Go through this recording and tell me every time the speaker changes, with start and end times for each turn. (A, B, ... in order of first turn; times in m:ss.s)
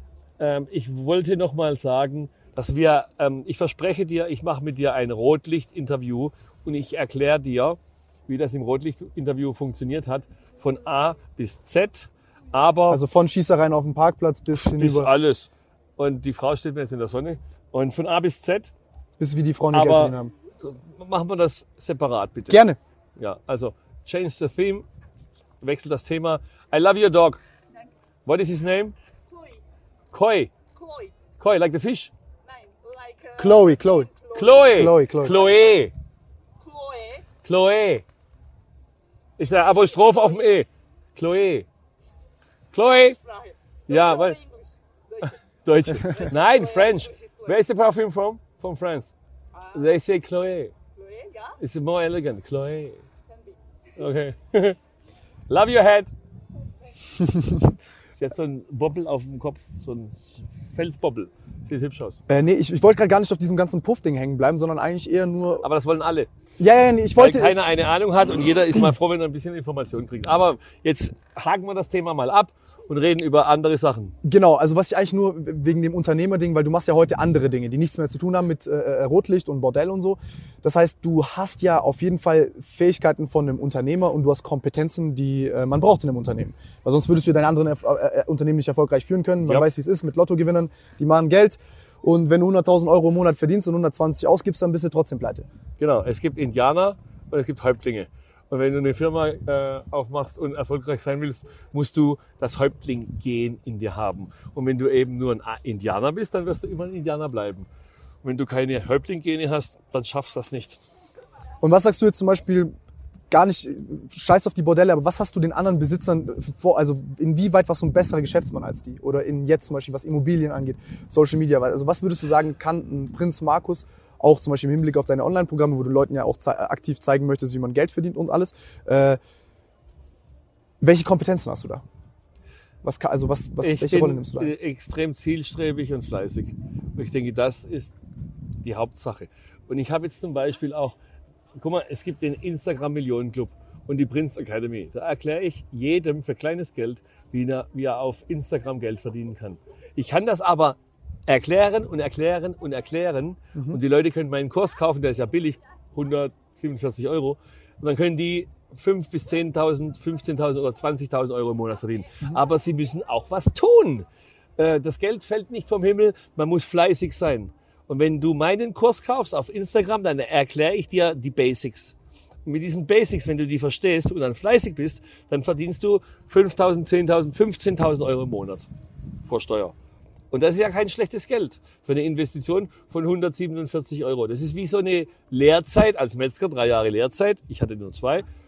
0:00.4-0:13.0 A
0:12.9-0:15.1 B
0:14.6-0:18.7 A
0:19.2-0:20.3 B
0:19.7-0:22.6 A
0:22.5-0:22.8 B
0:23.2-0:24.9 A
0:25.6-0:27.4 A
0:28.3-0:29.0 A
0:29.3-0:29.6 C
0:30.1-0:30.5 A
0:30.8-0:31.1 C
0:31.4-0:32.1 A
0:32.5-0:35.4 C
0:33.4-0:34.1 B
0:34.3-0:35.9 A
0:34.7-0:35.4 B
0:36.6-0:37.3 C
0:37.4-0:38.0 A
0:39.4-0:41.7 A
0:42.7-0:43.2 A
0:43.2-0:45.4 C
0:43.9-0:44.4 A
0:45.2-0:49.1 A
0:46.0-0:47.5 C
0:49.7-0:50.7 A
0:51.0-0:51.5 C
0:51.6-0:53.0 A
0:54.0-0:54.8 A
0:55.5-0:56.1 A
0:57.2-0:57.7 B
0:58.1-1:02.2 A
1:02.3-1:05.7 B
1:05.6-1:06.3 A
1:06.6-1:07.6 B
1:07.2-1:14.2 A
1:14.2-1:35.5 B
1:35.8-1:47.7 A
1:48.2-1:50.8 A
1:51.6-1:52.7 B
1:53.3-2:09.2 B
2:10.8-2:11.8 B
2:12.8-2:14.5 B
2:13.6-2:18.0 A
2:18.6-2:21.0 A
2:21.6-2:44.1 A
2:44.6-2:52.0 A
2:52.5-2:58.7 A
2:59.2-2:59.7 A
3:00.3-3:08.2 A